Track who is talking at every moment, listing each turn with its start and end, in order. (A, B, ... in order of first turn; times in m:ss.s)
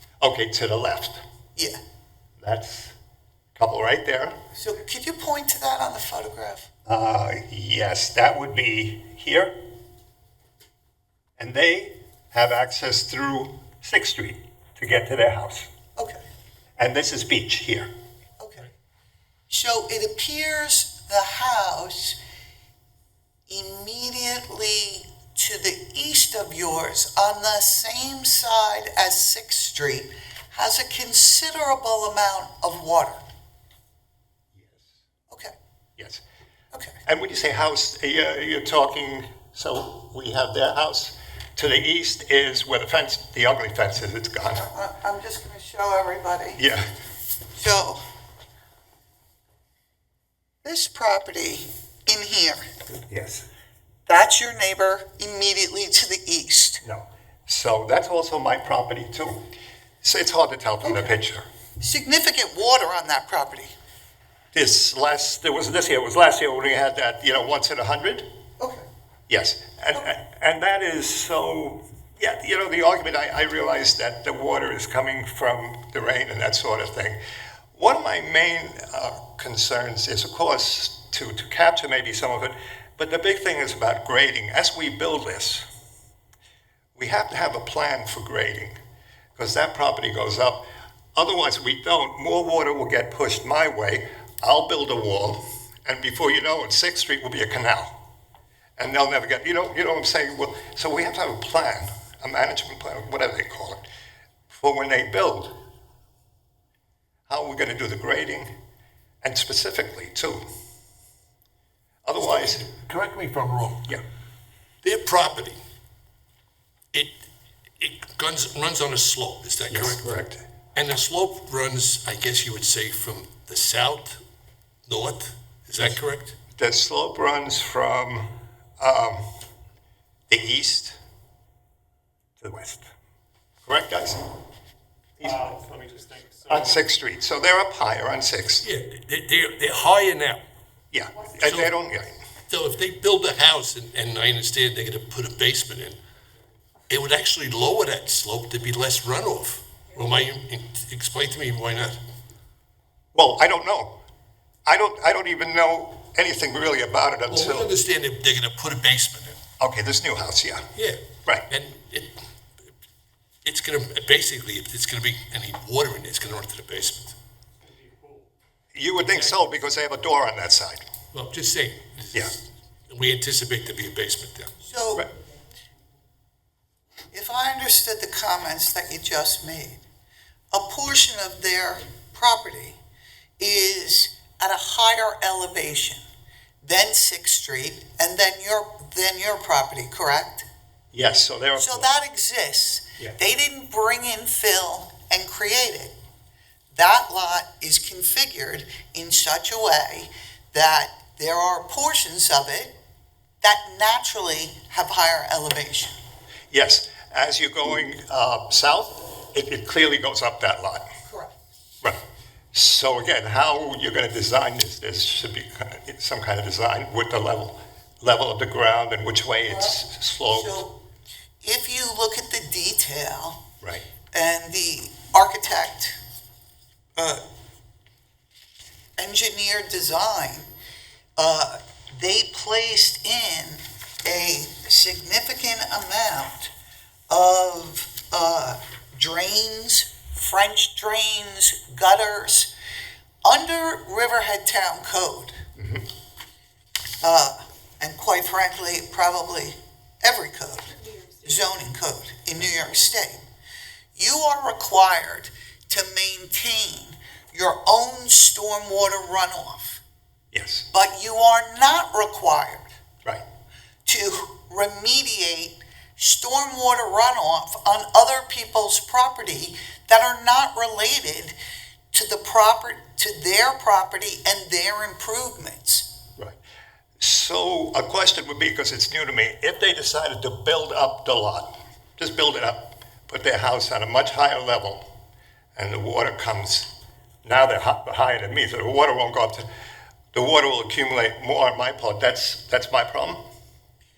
0:00.2-0:01.2 A
0:02.4-0:02.9 A
0:03.6-0:04.4 A
0:04.5-0:06.7 B
0:06.9-0:09.6 A
0:11.4-0:15.7 A
0:16.0-0:16.2 B
0:16.8-0:17.9 A
0:18.4-0:18.7 B
0:19.5-0:22.2 B
0:23.5-0:33.2 B
0:34.6-0:34.8 A
0:36.0-0:36.2 A
0:36.7-0:37.0 B
0:37.0-0:44.6 A
0:44.5-0:46.6 B
0:46.6-0:46.9 A
0:47.5-0:48.0 B
0:50.6-0:52.7 B
0:53.1-0:53.5 A
0:54.1-0:56.8 B
0:56.8-0:59.4 A
1:00.0-1:01.4 A
1:01.8-1:03.7 B
1:04.5-1:08.3 A
1:08.6-1:08.8 B
1:09.3-1:17.2 A
1:17.7-1:25.6 A
1:27.0-1:28.8 A
1:29.4-1:38.0 A
1:38.8-1:43.9 A
1:44.5-1:45.6 A
1:47.3-1:48.5 A
1:49.2-1:50.4 A
1:52.0-1:52.7 A
1:52.3-1:53.9 C
1:54.8-1:55.6 C
1:57.8-2:00.2 C
1:59.7-2:00.4 A
2:00.7-2:04.2 C
2:04.8-2:06.3 C
2:06.5-2:09.3 A
2:10.3-2:11.0 A
2:12.4-2:12.9 A
2:13.6-2:14.2 A
2:15.2-2:15.5 A
2:15.2-2:16.7 D
2:16.5-2:18.6 A
2:18.6-2:20.4 C
2:20.9-2:22.2 A
2:21.4-2:21.7 C
2:22.5-2:26.0 C
2:26.9-2:32.0 C
2:33.1-2:34.0 A
2:34.6-2:37.7 A
2:37.3-2:39.4 C
2:39.6-2:40.7 A
2:40.8-2:42.2 C
2:43.4-2:47.2 C
2:47.6-2:48.3 D
2:48.7-2:50.9 A
2:49.1-2:49.4 C
2:51.1-2:54.5 C
2:54.6-2:55.1 B
2:57.1-2:59.8 B
3:00.5-3:02.8 B
3:03.4-3:06.0 B
3:06.6-3:10.5 B
3:10.9-3:11.9 A
3:11.6-3:15.9 B
3:16.7-3:22.8 B
3:23.4-3:26.0 B
3:26.5-3:30.9 A
3:31.1-3:31.3 B
3:32.5-3:40.6 A
3:39.5-3:40.8 B
3:41.4-3:43.4 B
3:44.1-3:46.0 B
3:47.0-3:47.2 B
3:49.0-3:50.5 B
3:51.2-3:56.5 B
3:57.1-4:02.5 B
4:03.2-4:05.4 B
4:05.6-4:05.8 A
4:07.0-4:13.2 B
4:13.9-4:19.8 B
4:20.3-4:20.7 A
4:20.7-4:22.7 B
4:23.8-4:31.3 B
4:31.9-4:35.9 B
4:37.0-4:44.9 A
4:45.5-4:46.7 A
4:47.2-4:49.4 A
4:50.1-4:53.2 A